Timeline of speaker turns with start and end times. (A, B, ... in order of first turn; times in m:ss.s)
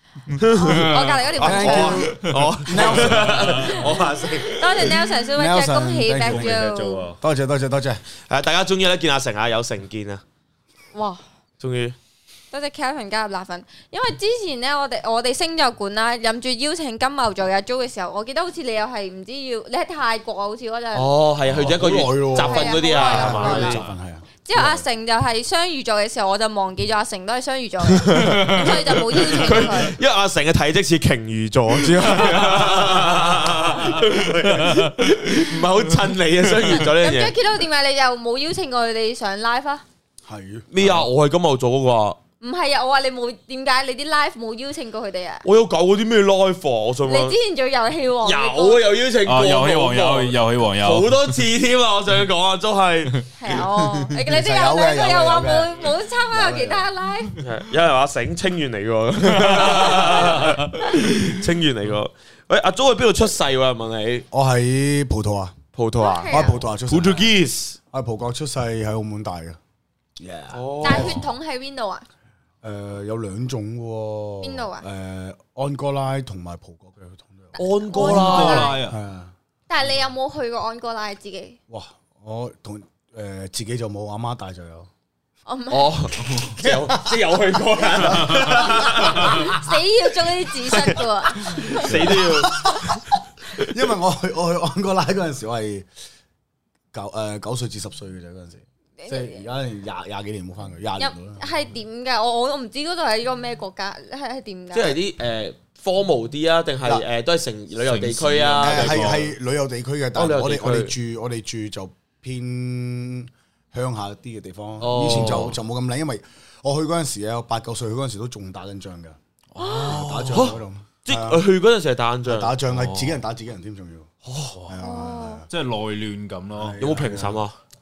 0:00.3-0:04.9 A
0:00.5-0:02.1 B
0:00.6-0:01.2 C
0:01.4-0:03.7 D
0:02.7-0:03.9 C
0:04.5-0:07.1 B
0:05.4-0:08.0 D
0:06.2-0:07.2 C
0:08.3-0:10.2 A
0:10.9-0:11.2 B
0:11.6-0:12.0 A
0:12.5-0:21.1 B
0:20.9-0:23.8 A
0:21.6-0:24.8 D
0:22.4-0:23.8 B
0:24.4-0:30.0 B
0:27.8-0:37.3 A
0:28.3-0:29.5 C
0:31.9-0:35.4 C
0:36.7-0:39.8 B
0:40.2-0:41.1 D
0:40.7-0:42.2 A
0:42.4-0:45.4 B
0:45.4-0:47.4 A
0:47.1-0:48.8 B
0:48.2-0:53.3 A
0:49.2-0:51.4 C
0:53.4-0:57.3 B
0:54.1-0:56.9 D
0:57.4-1:04.2 A
0:59.4-1:00.7 C
1:04.3-1:05.5 D
1:05.7-1:07.8 A
1:06.0-1:06.6 B
1:06.3-1:07.3 D
1:07.9-1:09.6 D
1:10.2-1:11.2 D
1:10.5-1:11.2 A
1:10.8-1:12.0 B
1:12.6-1:19.3 D
1:14.4-1:14.8 B
1:17.6-1:18.7 A
1:17.6-1:18.8 B
1:17.9-1:19.0 C
1:19.7-1:21.6 B
1:21.7-1:24.9 D
1:25.5-1:26.5 B
1:25.7-1:29.5 A
1:26.6-1:27.1 D
1:27.8-1:29.4 D
1:29.0-1:32.1 B
1:30.7-1:32.8 A
1:31.8-1:35.9 D
1:36.9-1:41.6 D
1:39.0-1:39.4 B
1:41.0-1:45.0 B
1:44.7-1:49.2 A
1:47.8-1:49.3 C
1:48.6-1:59.2 D
1:50.1-1:50.9 A
1:54.8-1:55.5 A
1:54.9-1:55.5 C
1:59.5-2:00.5 C
1:59.6-2:00.0 B
1:59.8-2:01.4 D
2:00.3-2:02.6 A
2:02.2-2:04.1 D
2:02.7-2:03.1 C
2:04.2-2:04.6 A
2:04.6-2:05.5 D
2:04.8-2:05.4 B
2:05.5-2:06.8 C
2:06.5-2:07.4 D
2:06.8-2:07.6 A